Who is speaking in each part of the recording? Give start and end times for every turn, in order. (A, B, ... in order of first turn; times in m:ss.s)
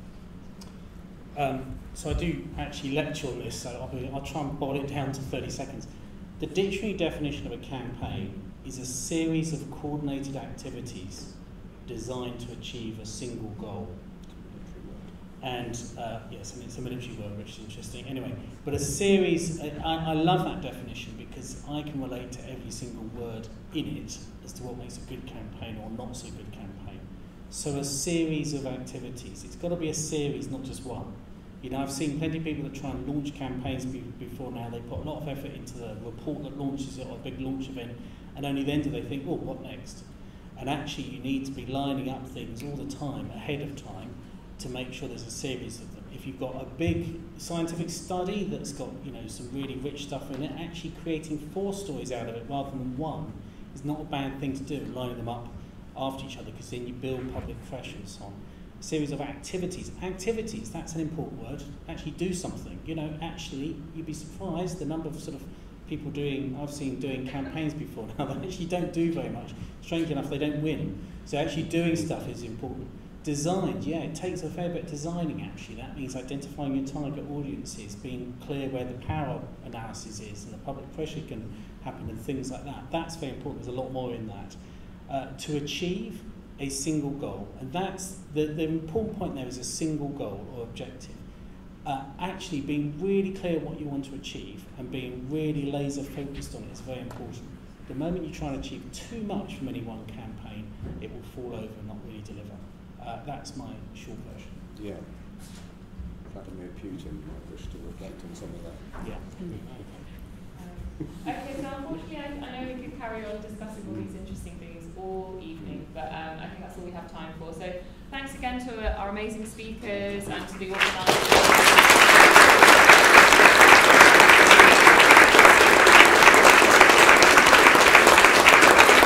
0:01.3-0:14.3 A
0:14.2-0:15.1 B
0:15.4-1:44.7 A
1:11.6-1:12.1 B
1:44.7-1:45.7 B
1:46.2-1:49.0 B
1:49.0-1:50.1 A
1:50.5-2:07.4 C
1:53.8-1:54.1 B
1:55.6-1:55.8 B